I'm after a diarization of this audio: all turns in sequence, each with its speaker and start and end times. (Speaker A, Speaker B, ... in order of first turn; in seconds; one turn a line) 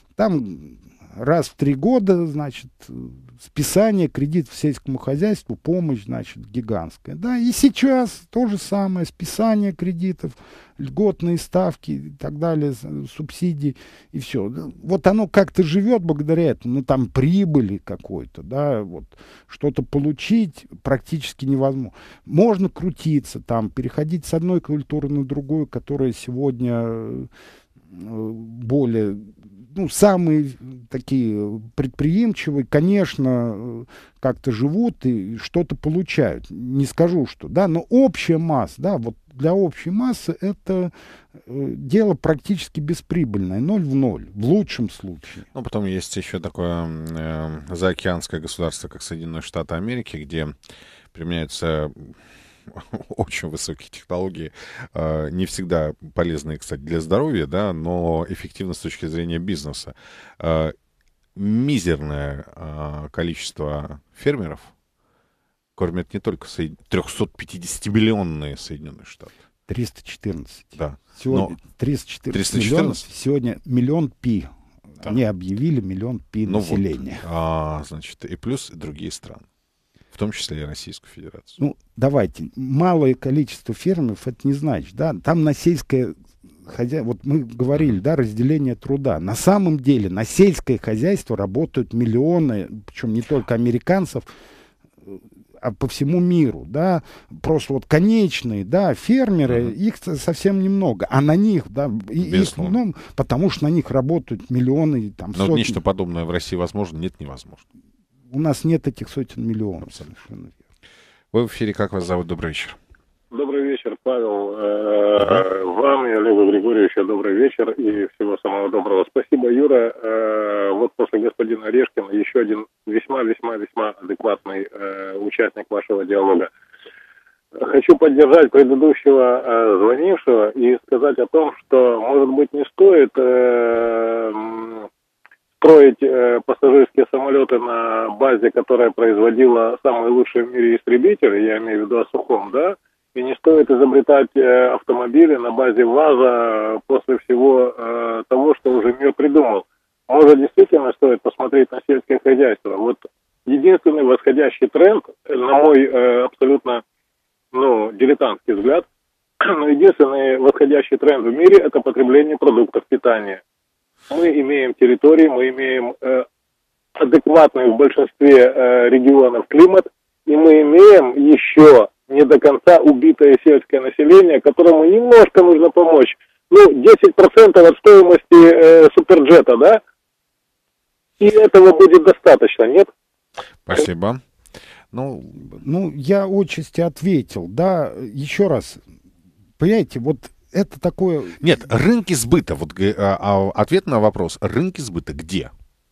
Speaker A: 0.2-27.3
Speaker A: 27.9-40.9
Speaker A: 41.5-45.5
Speaker B: 45.5-50.5
Speaker B: 51.1-60.8
Speaker B: 61.4-64.7
Speaker B: 65.8-69.3
Speaker A: 69.7-77.2
Speaker B: 70.8-71.6
Speaker B: 72.3-73.0
Speaker B: 76.5-79.5
Speaker B: 80.1-81.6
Speaker A: 81.6-94.3
Speaker A: 95.0-105.8
Speaker B: 102.2-102.8
Speaker B: 105.3-107.6
Speaker A: 108.3-110.6
Speaker B: 111.3-112.8
Speaker C: 113.3-126.5
Speaker B: 115.2-115.5
Speaker C: 127.6-134.9
Speaker C: 135.6-156.8
Speaker C: 157.5-158.9
Speaker C: 159.4-163.4
Speaker C: 164.1-166.2
Speaker C: 167.0-179.8
Speaker C: 181.2-182.9
Speaker B: 183.7-184.2
Speaker B: 184.9-185.6
Speaker A: 185.5-188.8
Speaker A: 189.6-191.4
Speaker B: 191.4-195.5